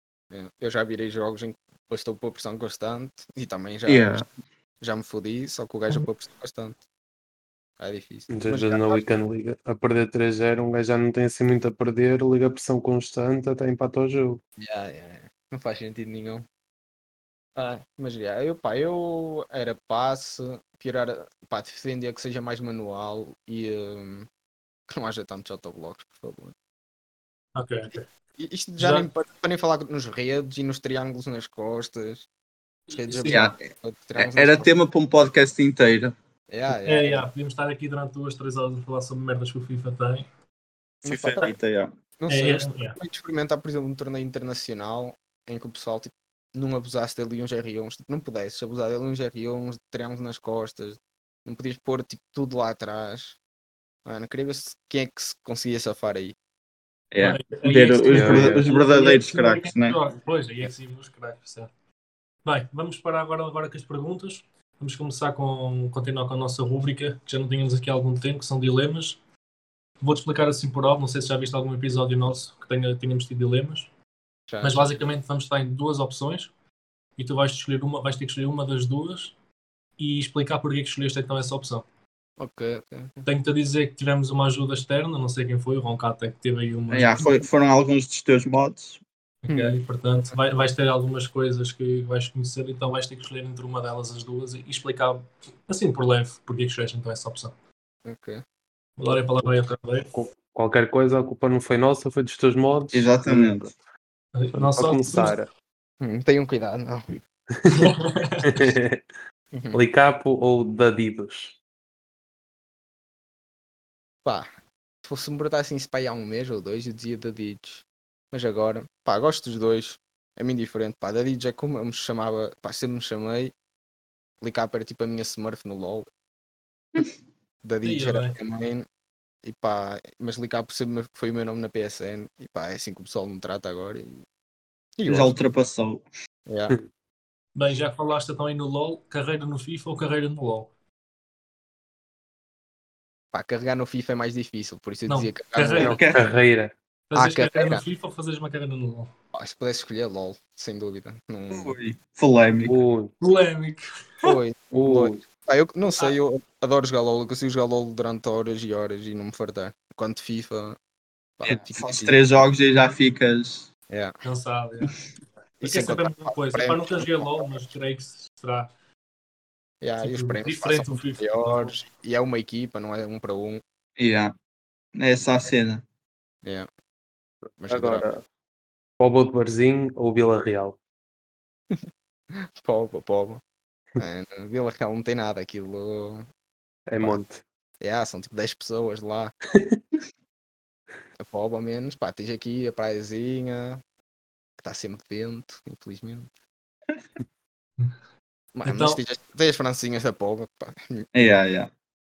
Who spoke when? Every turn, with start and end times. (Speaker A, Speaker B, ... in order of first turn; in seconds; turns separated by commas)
Speaker A: 0.3-4.2, Speaker B: 3.9-4.2, Speaker A: 4.8-6.8, Speaker A: 7.8-9.0, Speaker C: 8.3-14.4, Speaker A: 14.6-16.5, Speaker A: 17.6-24.3, Speaker A: 24.9-26.5, Speaker D: 27.6-28.0, Speaker A: 27.9-32.3, Speaker D: 28.8-29.1, Speaker D: 32.9-33.5, Speaker A: 32.9-34.7, Speaker B: 33.3-33.6, Speaker B: 34.2-36.1, Speaker A: 36.5-37.3, Speaker D: 36.7-40.3, Speaker A: 41.0-41.5, Speaker B: 41.0-41.9, Speaker A: 42.2-53.4, Speaker D: 42.3-43.0, Speaker A: 54.0-56.4, Speaker B: 57.1-60.0, Speaker D: 57.2-61.7, Speaker C: 58.1-58.7, Speaker D: 62.5-69.2, Speaker D: 70.0-73.9, Speaker A: 74.5-75.0, Speaker D: 74.6-76.5, Speaker D: 77.2-79.3, Speaker D: 80.0-81.8, Speaker A: 82.4-83.3, Speaker D: 83.2-87.4, Speaker B: 86.9-89.0, Speaker D: 89.5-97.5, Speaker A: 89.5-90.4, Speaker A: 98.0-98.4, Speaker D: 99.0-100.1, Speaker C: 100.1-103.8, Speaker B: 102.9-103.7, Speaker D: 104.3-105.4, Speaker C: 104.5-105.5, Speaker A: 106.0-107.0, Speaker C: 107.6-107.9, Speaker D: 107.7-108.5, Speaker C: 108.4-109.1, Speaker A: 109.5-109.8, Speaker C: 109.7-111.6, Speaker A: 115.0-123.5, Speaker A: 124.4-126.1, Speaker A: 127.6-128.9, Speaker D: 127.8-128.4, Speaker A: 129.4-134.2, Speaker A: 135.0-135.3, Speaker B: 135.1-136.0, Speaker A: 136.5-136.8, Speaker D: 137.6-140.7, Speaker A: 143.3-146.0, Speaker D: 145.1-146.0, Speaker C: 145.8-146.7, Speaker B: 145.8-146.2, Speaker D: 147.1-149.1, Speaker A: 147.2-147.8, Speaker A: 149.3-151.8, Speaker B: 151.5-152.8, Speaker C: 152.7-153.1, Speaker D: 153.2-154.3, Speaker A: 154.2-160.8, Speaker C: 154.7-155.2, Speaker A: 161.4-162.2, Speaker B: 161.4-163.7, Speaker A: 163.9-164.1, Speaker D: 164.2-165.0, Speaker A: 165.6-167.5, Speaker D: 165.6-168.7, Speaker A: 169.8-173.6, Speaker D: 170.0-171.8, Speaker B: 174.0-174.3, Speaker B: 175.0-175.8, Speaker A: 177.6-178.1, Speaker C: 177.7-178.2, Speaker C: 179.0-180.8, Speaker A: 181.7-183.4, Speaker A: 184.0-186.3, Speaker C: 186.9-187.4, Speaker A: 187.8-189.3, Speaker A: 191.2-193.8, Speaker A: 194.6-196.3, Speaker A: 198.6-201.1, Speaker D: 198.7-199.0, Speaker B: 201.1-201.7